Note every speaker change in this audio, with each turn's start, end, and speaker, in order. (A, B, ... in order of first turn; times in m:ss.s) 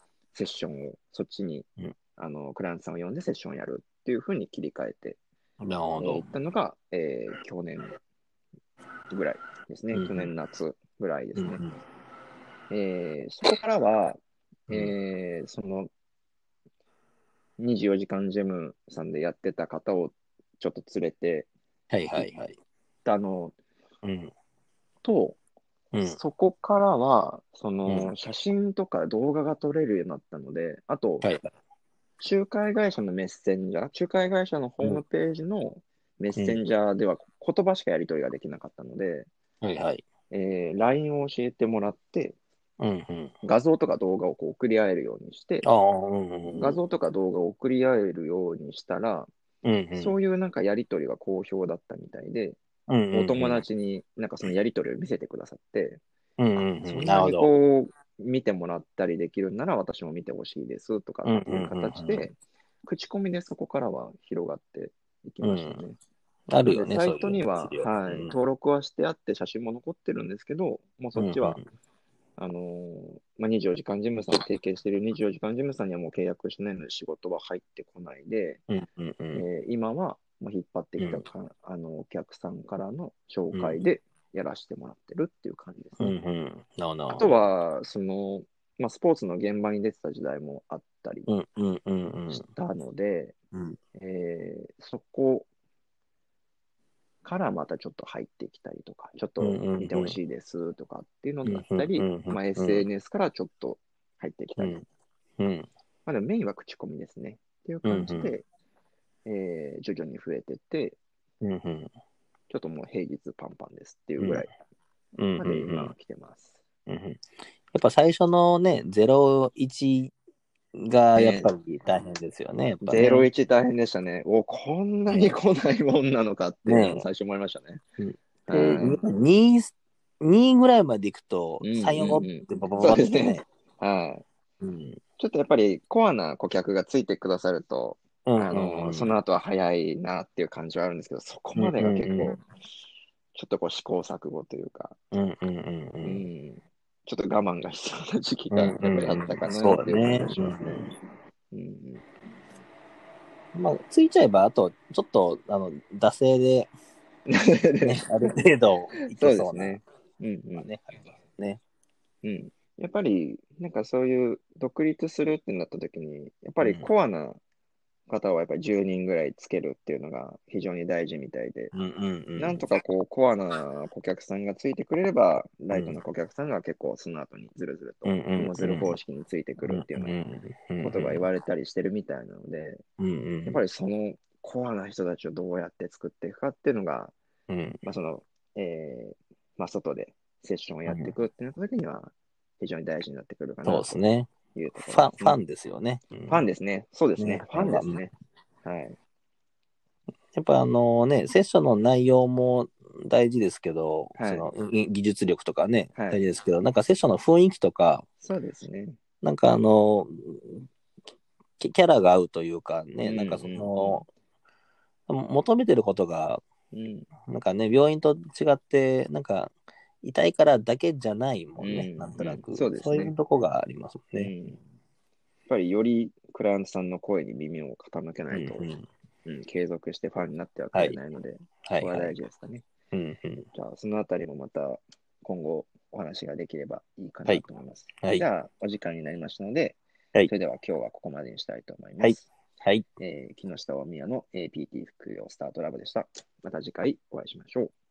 0:00.3-0:05.2 A
0:05.6-0:06.3 B
0:06.0-0:07.9 A
0:09.1-0:11.6 A
0:09.9-0:10.3 B
0:11.3-0:11.8 B
0:12.7-0:14.2 A
0:14.7-0:14.9 B
0:14.7-0:15.9 A
0:17.6-0:21.5 A
0:21.9-0:22.6 B
0:23.0-0:23.5 A
0:24.0-0:24.3 B
0:25.0-0:25.4 A
0:26.0-0:31.3 A
0:27.8-0:28.1 B
0:31.2-0:31.5 B
0:32.2-0:39.3 A
0:39.6-0:40.0 B
0:40.3-0:42.4 A
0:42.8-0:43.3 B
0:43.4-0:45.6 A
0:45.6-0:46.8 B
0:46.5-0:49.3 A
0:49.6-0:50.2 B
0:49.9-0:52.6 A
0:52.9-0:53.6 B
0:53.1-0:56.0 A
0:56.4-0:57.5 B
0:56.8-1:06.0 A
1:01.2-1:02.3 B
1:05.4-1:05.8 B
1:06.5-1:08.3 B
1:06.6-1:11.6 A
1:11.2-1:11.6 B
1:12.4-1:18.6 A
1:18.7-1:19.4 B
1:19.3-1:26.1 A
1:21.0-1:21.2 B
1:23.5-1:23.8 B
1:26.0-1:27.4 B
1:27.1-1:31.3 A
1:31.3-1:32.5 B
1:32.3-1:33.3 A
1:33.5-1:33.8 B
1:34.0-1:35.5 A
1:37.2-1:44.8 A
1:39.4-1:40.2 B
1:41.4-1:42.8 B
1:44.6-1:44.8 B
1:45.4-1:45.7 B
1:46.0-1:48.4 A
1:47.8-1:48.3 B
1:49.2-1:51.0 A
1:51.4-1:51.9 B
1:52.5-1:54.5 A
1:54.2-1:54.4 B
1:55.2-1:55.9 B
1:55.4-1:56.6 A
1:56.9-2:00.1 B
2:00.7-2:03.3 B
2:01.1-2:01.5 A
2:02.8-2:07.8 A
2:05.1-2:05.4 B
2:06.6-2:07.0 B
2:08.0-2:13.4 B
2:08.5-2:09.0 A
2:11.6-2:14.2 A
2:14.6-2:15.0 B
2:15.2-2:22.4 A
2:18.2-2:19.1 B
2:21.6-2:22.4 B
2:23.3-2:25.0 A
2:25.1-2:26.2 B
2:26.0-2:30.9 A
2:28.5-2:30.9 B
2:31.5-2:32.0 A
2:33.5-2:36.7 B
2:37.3-2:38.3 A
2:37.8-2:39.8 B
2:39.1-2:40.7 A
2:40.6-2:41.6 B
2:42.2-2:47.4 A
2:46.6-2:46.9 B
2:48.1-2:51.7 A
2:51.7-2:52.6 B
2:52.4-3:02.8 A
2:55.7-2:56.0 B
2:58.0-2:59.0 B
2:59.6-3:01.2 B
3:03.0-3:03.6 B
3:03.4-3:07.1 A
3:07.5-3:07.8 B
3:07.8-3:14.0 A
3:10.9-3:11.1 B
3:13.6-3:14.3 B
3:14.5-3:15.4 A
3:14.9-3:16.4 B
3:16.3-3:18.1 A
3:17.2-3:18.0 B
3:18.6-3:19.0 A
3:20.3-3:28.0 B
3:24.2-3:24.5 A
3:25.9-3:26.2 A
3:28.2-3:29.0 A
3:29.2-3:30.7 B
3:31.6-3:34.1 B
3:33.0-3:34.0 A
3:35.1-3:36.4 B
3:36.7-3:37.1 A
3:37.2-3:39.5 B
3:40.0-3:44.3 B
3:41.6-3:43.1 A
3:44.1-3:44.6 A
3:45.5-3:48.7 A
3:48.3-3:48.9 B
3:49.2-3:52.6 A
3:51.6-3:52.2 B
3:52.9-3:53.5 B
3:53.5-4:02.2 A
4:02.0-4:02.8 B
4:03.0-4:07.7 A